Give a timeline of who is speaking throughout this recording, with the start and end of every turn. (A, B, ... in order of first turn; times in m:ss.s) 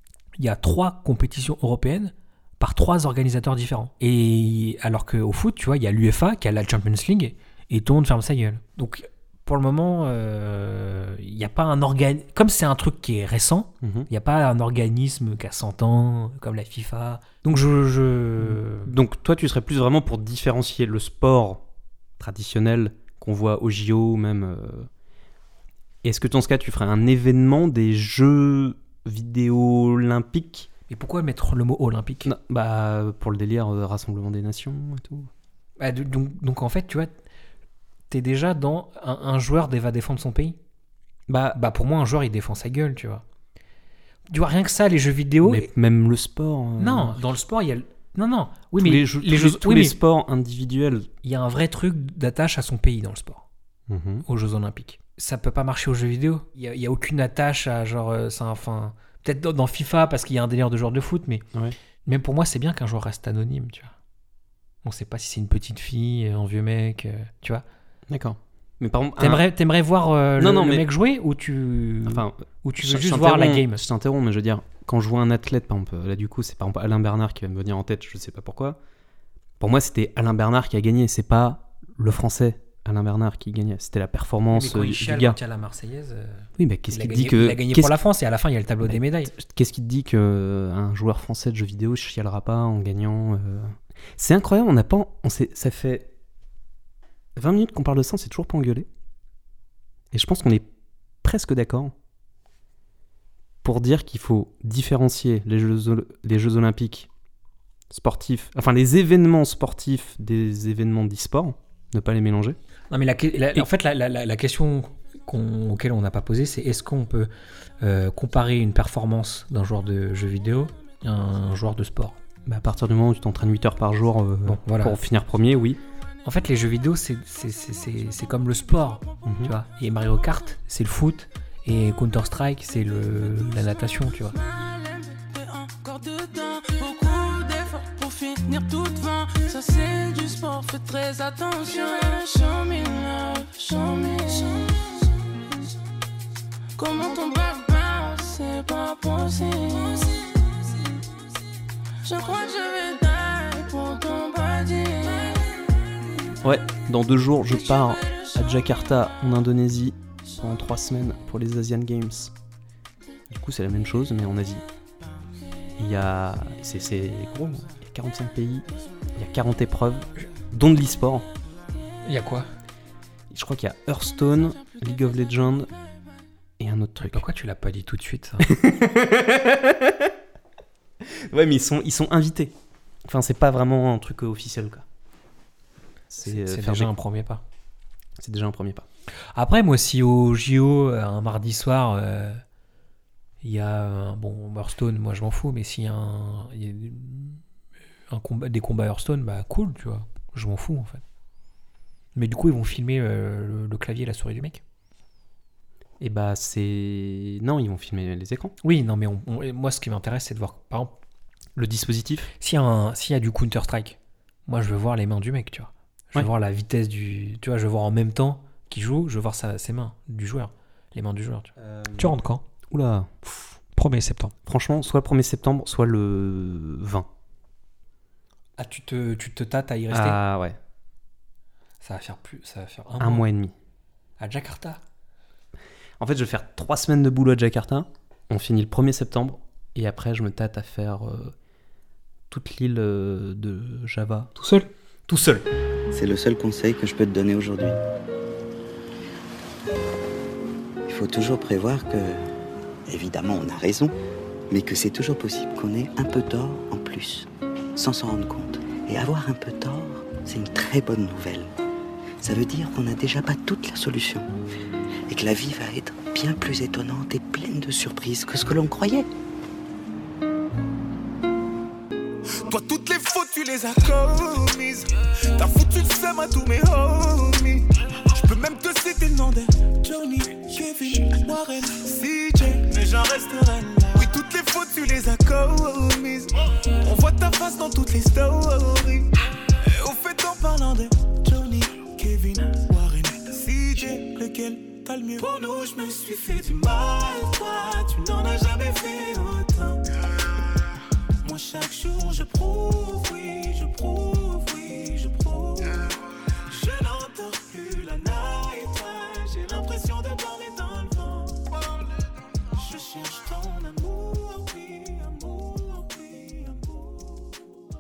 0:00.4-0:18.9 A
0:13.8-0:14.1 B
0:18.4-0:21.6 B
0:22.2-0:24.9 B
0:26.0-0:30.7 B
0:30.9-0:32.3 A
0:32.2-0:35.3 B
0:35.8-0:37.1 A
0:38.1-0:40.6 A
0:41.3-0:41.6 B
0:41.5-0:43.2 A
0:44.3-0:45.7 A
0:45.4-0:47.2 B
0:46.8-0:50.0 A
0:48.8-0:51.1 B
0:51.2-0:53.5 A
0:53.9-0:54.3 B
0:54.3-1:01.4 A
1:02.0-1:04.0 A
1:04.8-1:07.6 A
1:08.1-1:09.5 B
1:09.2-1:13.8 A
1:10.4-1:10.9 B
1:12.1-1:18.8 B
1:19.6-1:25.4 B
1:24.5-1:29.3 A
1:26.6-1:28.0 B
1:28.8-1:36.1 B
1:37.4-1:38.9 B
1:40.1-1:40.7 B
1:41.2-1:41.9 B
1:43.6-1:47.1 B
1:47.9-1:52.6 B
1:52.9-1:57.3 A
1:57.8-2:02.2 A
2:02.5-2:05.8 B
2:04.4-2:05.0 A
2:06.2-2:14.4 A
2:09.2-2:09.5 B
2:14.4-2:25.0 C
2:26.8-2:30.3 C
2:32.0-2:35.6 C
2:36.4-2:42.3 B
2:43.3-2:44.6 B
2:45.8-2:51.3 B
2:52.0-2:52.5 A
2:53.3-2:55.7 B
2:56.6-2:57.2 B
2:57.0-2:58.5 A
2:58.4-3:00.1 B
3:01.0-3:02.5 B
3:03.0-3:04.8 B
3:06.1-3:06.9 B
3:06.2-3:07.4 A
3:08.2-3:08.9 B
3:09.4-3:12.4 A
3:13.4-3:17.4 A
3:18.1-3:21.0 A
3:22.2-3:24.6 A
3:26.0-3:28.6 B
3:28.6-3:30.9 A
3:31.6-3:32.3 B
3:32.4-3:42.4 A
3:41.6-3:42.2 B
3:42.7-3:43.6 B
3:43.8-3:44.4 A
3:44.5-3:47.1 B
3:48.6-3:50.2 A
3:49.9-3:50.6 B
3:51.8-3:53.3 A
3:53.0-3:53.5 B
3:54.2-3:54.8 A
3:56.0-4:01.4 B
4:02.3-4:04.3 B
4:04.4-4:05.4 A
4:05.9-4:07.8 D
4:10.8-4:12.2 D
4:12.9-4:13.9 D
4:14.5-4:21.5 D
4:22.2-4:24.3 D
4:25.1-4:29.1 D
4:32.4-5:00.0 E
5:01.2-5:11.8 E
5:12.3-5:17.4 E